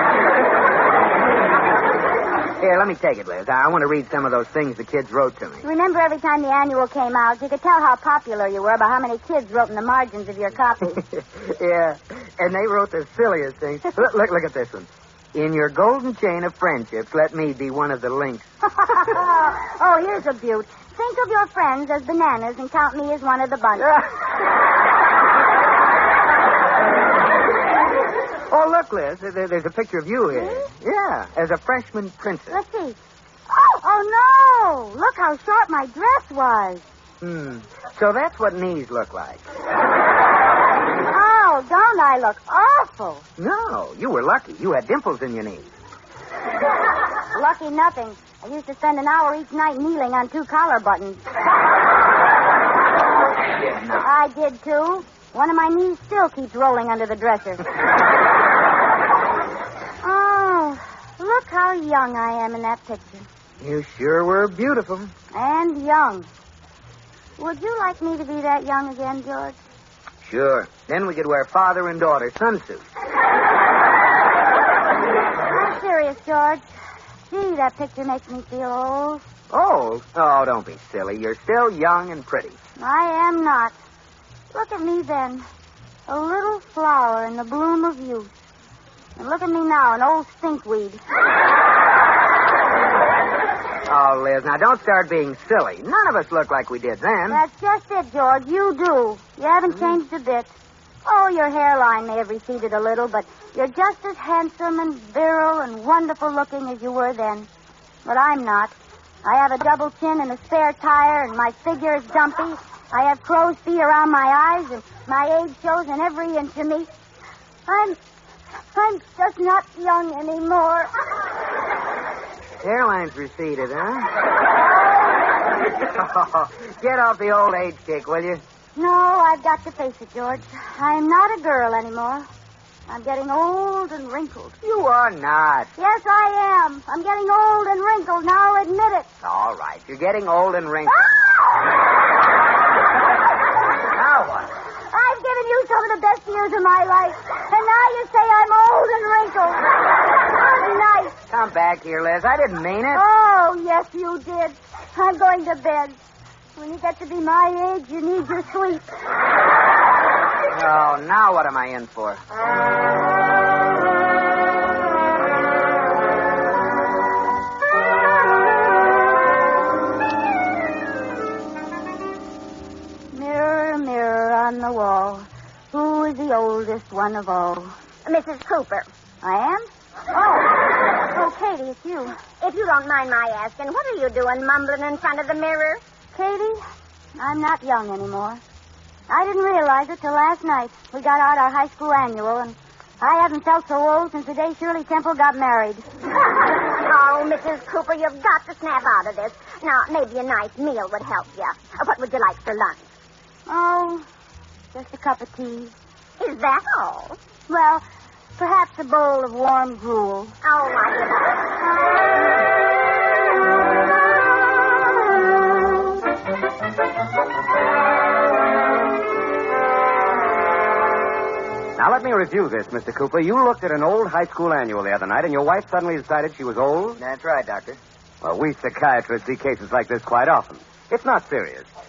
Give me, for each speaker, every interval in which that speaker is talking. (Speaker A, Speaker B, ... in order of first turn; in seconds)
Speaker A: 2.6-5.6, 11.0-18.5, 28.5-32.6, 37.2-39.4, 43.4-45.7, 53.6-54.1, 63.6-65.1, 70.2-72.8, 79.5-82.6, 93.9-97.4, 122.6-124.1, 125.8-128.4, 134.6-135.7, 139.2-141.1, 143.9-144.5, 151.3-153.0, 160.5-162.2, 227.0-227.8
Speaker B: 5.6-11.0, 19.0-24.0, 30.3-30.7, 32.5-33.0, 33.5-36.9, 41.1-43.3, 47.3-51.2, 54.0-57.6, 60.0-63.3, 65.3-66.3, 67.4-69.6, 75.5-76.7, 77.3-79.2, 82.8-83.8, 84.5-85.5, 86.1-88.3, 89.2-91.0, 97.3-100.5, 101.0-107.5, 108.0-116.9, 117.7-118.0, 118.7-120.9, 128.8-132.3, 132.9-134.6, 135.8-139.1, 140.9-141.3, 144.9-149.6, 150.3-151.2, 152.9-156.0, 156.6-158.8, 173.1-177.7, 179.2-182.2, 186.1-186.6, 187.2-188.4, 189.1-195.8, 203.5-204.1, 204.7-205.7, 207.5-207.8, 208.4-210.3
Speaker C: 178.1-178.9, 182.4-185.8, 196.8-202.8, 206.2-207.2, 210.4-211.4
Speaker D: 221.8-227.0, 228.2-231.7